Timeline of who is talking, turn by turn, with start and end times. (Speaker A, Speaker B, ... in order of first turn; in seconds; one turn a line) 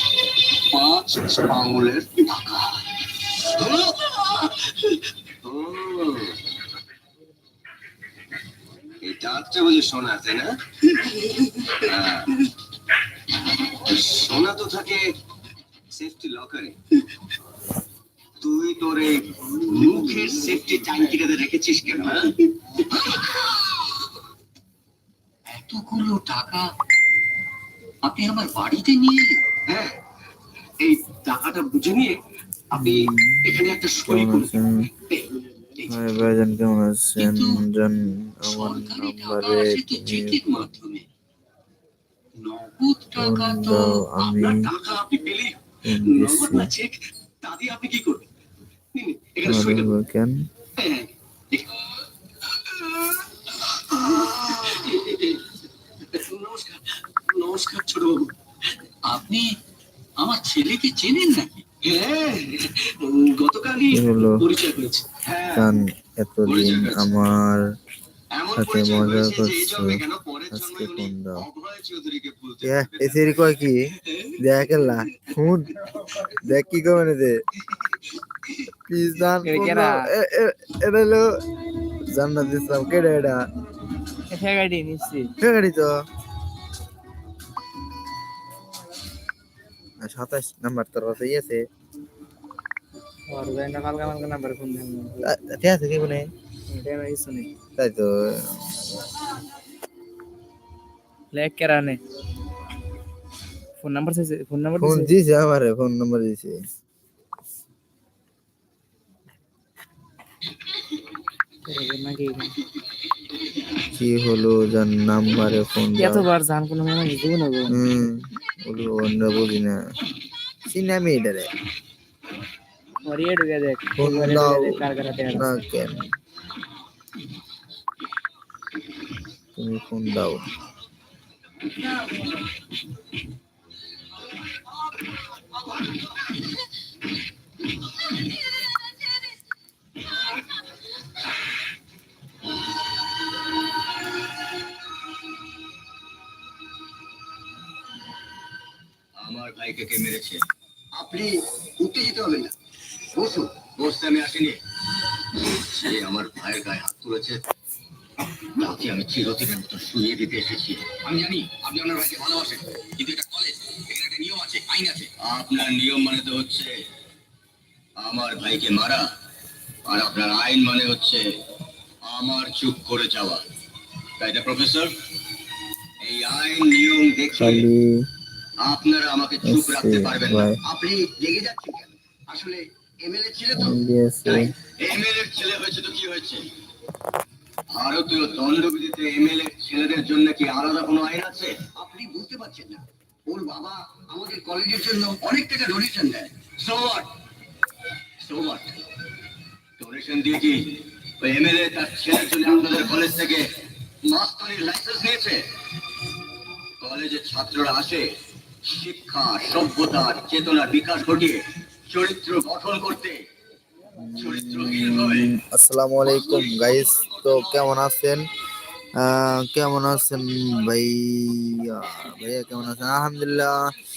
Speaker A: 0.5-2.8
Speaker A: 3.3-4.5
Speaker A: 5.4-6.3
Speaker A: 9.0-10.5
Speaker A: 11.6-12.3
Speaker A: 13.7-15.0
Speaker A: 15.9-16.8
Speaker A: 18.4-23.4
Speaker A: 25.5-26.6
Speaker A: 28.0-29.9
Speaker A: 30.8-32.2
Speaker A: 32.7-34.5
Speaker B: 32.7-34.9
Speaker A: 35.1-36.0
Speaker B: 35.9-40.5
Speaker A: 37.2-37.6
Speaker A: 38.5-41.0
Speaker A: 42.4-45.5
Speaker B: 43.1-44.7
Speaker B: 45.8-46.7
Speaker A: 46.0-48.2
Speaker A: 48.9-49.9
Speaker B: 49.4-50.3
Speaker A: 50.8-51.6
Speaker A: 53.1-55.4
Speaker A: 56.1-58.3
Speaker A: 59.0-59.5
Speaker A: 60.2-65.7
Speaker B: 63.9-64.5
Speaker B: 65.5-67.6
Speaker A: 66.4-67.2
Speaker A: 68.3-73.5
Speaker B: 68.5-71.5
Speaker B: 72.6-77.4
Speaker B: 78.9-81.3
Speaker C: 79.4-80.0
Speaker B: 82.1-83.4
Speaker C: 84.3-85.3
Speaker B: 85.4-85.9
Speaker B: 90.0-91.6
Speaker C: 93.3-95.3
Speaker B: 95.2-96.3
Speaker C: 96.7-97.5
Speaker B: 97.8-99.1
Speaker C: 101.3-102.0
Speaker C: 103.8-105.1
Speaker B: 104.8-106.5
Speaker C: 111.6-112.6
Speaker B: 113.9-116.2
Speaker C: 116.0-117.8
Speaker B: 117.7-119.8
Speaker B: 120.6-121.5
Speaker C: 123.0-125.5
Speaker B: 124.0-124.7
Speaker B: 125.3-126.1
Speaker B: 129.6-130.4
Speaker A: 149.2-152.5
Speaker A: 153.1-154.6
Speaker A: 155.4-157.4
Speaker A: 158.5-166.8
Speaker A: 168.0-169.1
Speaker A: 169.8-171.2
Speaker A: 172.0-173.4
Speaker A: 174.2-174.9
Speaker A: 176.0-177.7
Speaker B: 177.4-178.1
Speaker A: 178.6-186.4
Speaker B: 179.4-180.6
Speaker B: 183.6-184.5
Speaker A: 187.7-197.1
Speaker A: 198.2-198.8
Speaker A: 199.8-203.4
Speaker A: 204.0-205.4
Speaker A: 206.8-208.1
Speaker A: 208.6-213.2
Speaker B: 213.9-218.2
Speaker A: 214.2-215.3
Speaker A: 216.1-217.7
Speaker B: 219.0-223.7